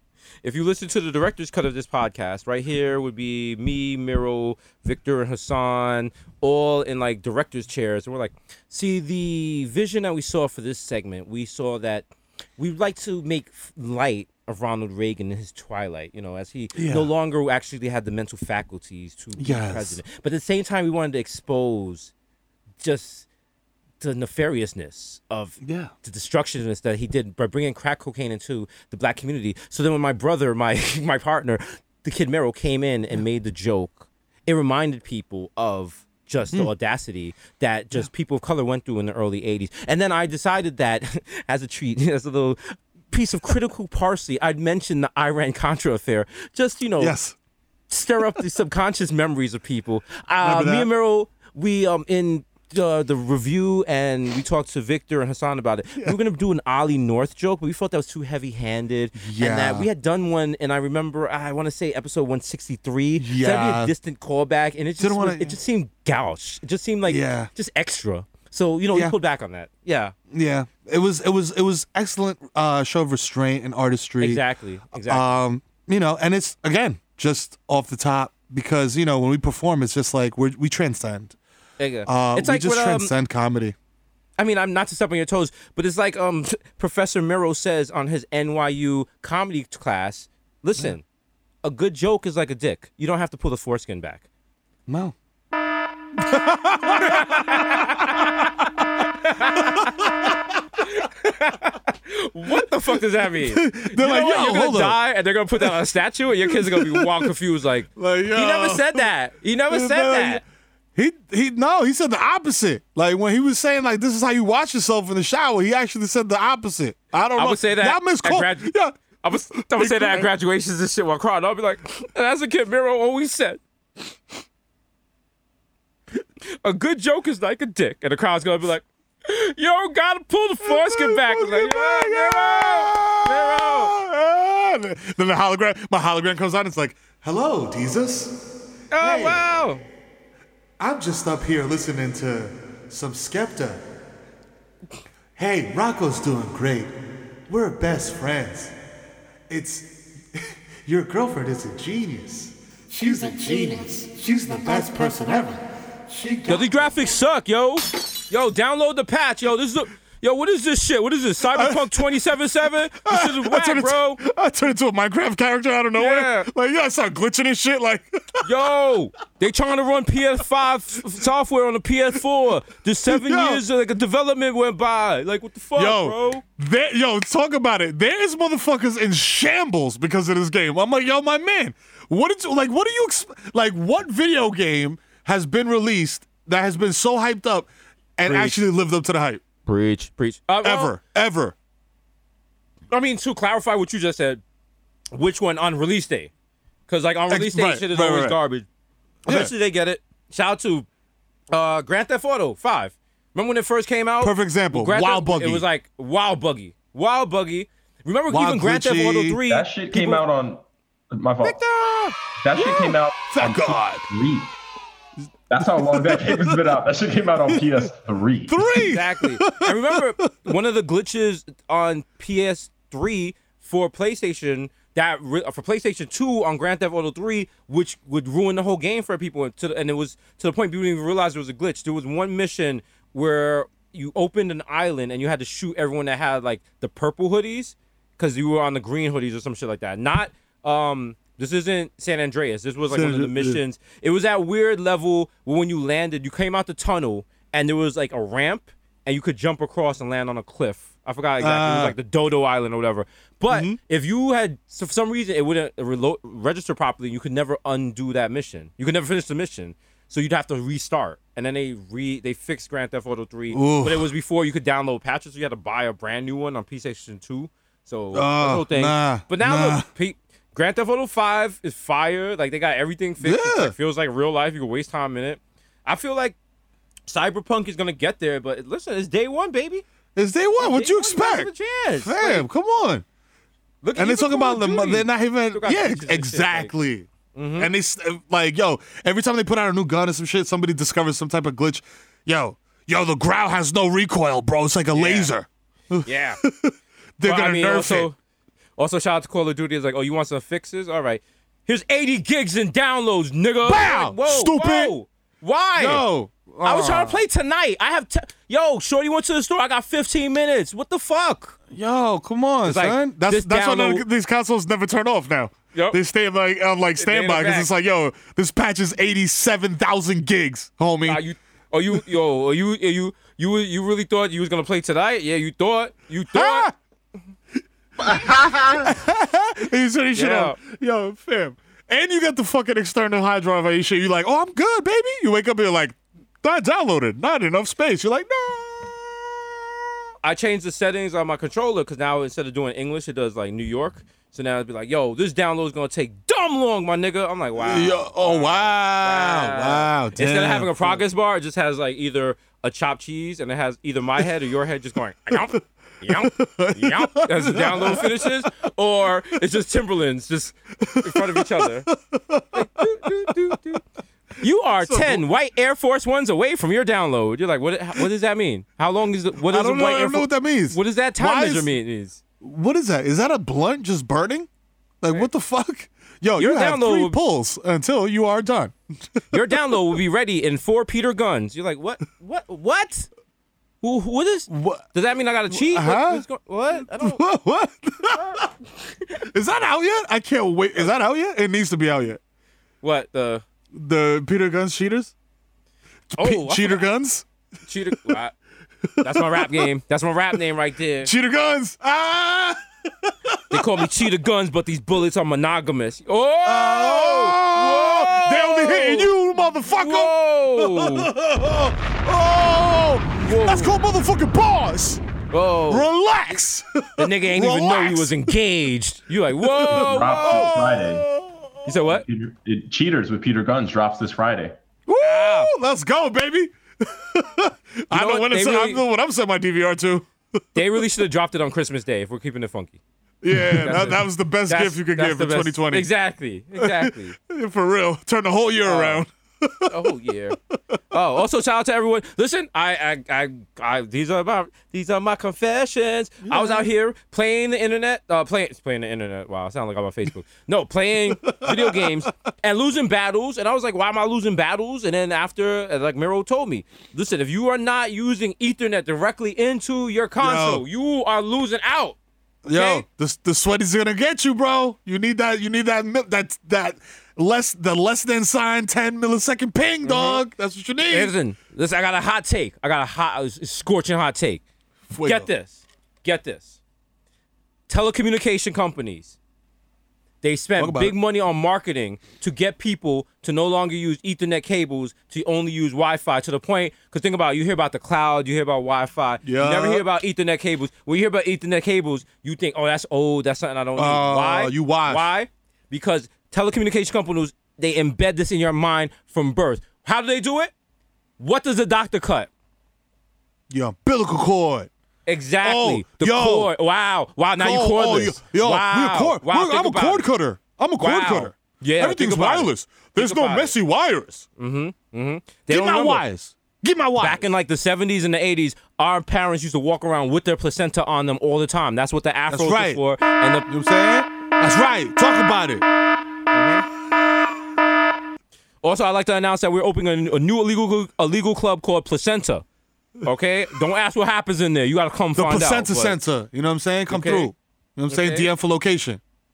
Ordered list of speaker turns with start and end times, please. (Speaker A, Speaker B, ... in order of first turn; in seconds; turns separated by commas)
Speaker A: 0.4-22.1, Speaker B: 16.7-17.1, Speaker B: 19.4-20.0, Speaker A: 22.8-23.2, Speaker A: 24.0-47.1, Speaker B: 25.6-25.9, Speaker B: 47.0-47.4, Speaker A: 47.9-70.1, Speaker B: 50.4-50.9, Speaker B: 59.2-59.9, Speaker B: 63.2-63.9, Speaker B: 65.0-65.6, Speaker B: 67.1-67.5, Speaker B: 70.3-74.4, Speaker A: 74.2-75.3, Speaker B: 75.0-81.3, Speaker A: 81.8-83.1, Speaker B: 82.0-83.7, Speaker A: 84.4-91.0, Speaker A: 91.6-94.2, Speaker B: 94.9-95.1, Speaker B: 96.2-98.3, Speaker A: 97.0-98.4, Speaker A: 99.2-100.1, Speaker B: 99.5-100.4, Speaker A: 100.8-110.4, Speaker B: 103.4-105.0, Speaker B: 106.5-107.3, Speaker B: 108.0-109.1, Speaker B: 109.7-110.4, Speaker B: 111.0-120.3, Speaker A: 117.4-123.6, Speaker A: 126.6-133.9, Speaker B: 130.6-138.4, Speaker A: 138.9-139.8, Speaker B: 139.0-139.4, Speaker B: 140.8-143.8, Speaker B: 145.4-146.9, Speaker B: 147.5-148.7, Speaker B: 149.5-156.7, Speaker A: 156.5-164.2, Speaker B: 161.5-162.0, Speaker B: 163.1-168.5, Speaker A: 166.0-166.5, Speaker A: 168.4-176.4, Speaker B: 173.1-173.6, Speaker B: 175.8-189.4, Speaker A: 188.2-188.6, Speaker A: 189.7-190.9, Speaker B: 190.6-191.5, Speaker A: 192.9-194.4, Speaker A: 195.1-196.3, Speaker A: 196.9-198.7, Speaker B: 197.3-198.4, Speaker B: 199.2-199.5, Speaker A: 199.2-200.8, Speaker A: 201.5-210.2, Speaker B: 204.2-205.6, Speaker B: 208.3-209.4, Speaker C: 209.4-211.6, Speaker A: 211.4-212.2, Speaker C: 212.4-214.5, Speaker B: 212.5-214.1, Speaker C: 215.5-218.6, Speaker B: 215.6-216.7, Speaker B: 217.4-217.9, Speaker B: 218.5-220.3, Speaker A: 218.8-276.4, Speaker B: 242.9-243.6, Speaker B: 251.4-251.9, Speaker B: 253.5-253.8, Speaker B: 263.5-264.1, Speaker B: 268.1-269.9, Speaker B: 273.2-273.7, Speaker A: 277.1-279.8, Speaker B: 280.1-283.0, Speaker A: 280.6-282.4, Speaker A: 283.8-286.7, Speaker B: 283.9-298.1, Speaker A: 287.3-287.7, Speaker A: 294.9-295.3, Speaker A: 296.0-296.4, Speaker A: 297.2-298.2, Speaker A: 298.8-306.1, Speaker B: 303.6-304.9, Speaker B: 305.8-307.2, Speaker A: 306.6-311.6, Speaker B: 311.7-321.2, Speaker A: 312.6-314.0, Speaker A: 315.7-316.0, Speaker A: 317.0-317.7, Speaker A: 321.0-326.7, Speaker B: 326.3-326.7, Speaker B: 328.0-339.3, Speaker A: 330.1-330.6, Speaker A: 340.2-361.9, Speaker B: 347.6-351.0, Speaker B: 355.3-358.4, Speaker B: 360.8-362.9, Speaker A: 362.5-363.8, Speaker A: 364.4-372.2, Speaker B: 364.8-365.2, Speaker B: 369.5-371.7, Speaker B: 372.4-374.5, Speaker B: 375.0-379.8, Speaker A: 376.4-377.2, Speaker A: 379.3-383.1, Speaker A: 383.8-387.2, Speaker B: 384.5-384.9, Speaker B: 385.5-386.2, Speaker B: 386.8-388.5, Speaker B: 389.1-392.2, Speaker A: 392.8-393.4, Speaker B: 393.7-395.1, Speaker B: 396.1-397.2, Speaker A: 396.1-396.9, Speaker A: 397.6-398.3, Speaker B: 398.9-399.6, Speaker A: 399.0-401.1, Speaker B: 401.0-403.9, Speaker A: 403.5-409.1, Speaker B: 406.4-415.0, Speaker A: 409.6-411.1, Speaker A: 413.2-413.7, Speaker A: 415.3-415.9, Speaker B: 415.7-418.4, Speaker A: 417.0-420.5, Speaker B: 419.4-421.4, Speaker C: 419.7-421.1, Speaker A: 421.6-422.0, Speaker C: 421.9-424.6, Speaker B: 424.9-430.6, Speaker A: 425.0-425.5, Speaker A: 427.9-428.8, Speaker A: 430.5-432.8, Speaker B: 433.2-435.9, Speaker A: 433.4-437.1, Speaker B: 436.5-439.7, Speaker A: 438.6-439.0, Speaker A: 439.6-440.4, Speaker A: 440.9-462.0, Speaker B: 446.2-446.7, Speaker B: 451.2-452.1, Speaker B: 460.2-460.6, Speaker B: 462.4-471.1, Speaker A: 462.5-462.8, Speaker A: 469.8-470.2, Speaker A: 470.9-474.4, Speaker B: 474.9-475.3, Speaker A: 475.0-476.6, Speaker A: 477.7-479.1, Speaker A: 480.2-500.5, Speaker B: 480.6-480.9, Speaker B: 489.2-489.9, Speaker B: 493.8-495.0, Speaker A: 501.2-502.3, Speaker B: 503.5-504.7, Speaker A: 505.1-510.1, Speaker B: 505.4-506.5, Speaker B: 507.4-514.2, Speaker A: 510.8-513.5, Speaker A: 514.4-516.0, Speaker B: 515.5-517.2, Speaker A: 517.0-523.5, Speaker B: 522.3-522.8, Speaker B: 523.5-525.6, Speaker A: 526.3-526.6, Speaker A: 528.6-532.4, Speaker A: 533.0-536.0, Speaker B: 535.1-539.0, Speaker A: 536.9-537.3, Speaker A: 537.9-538.3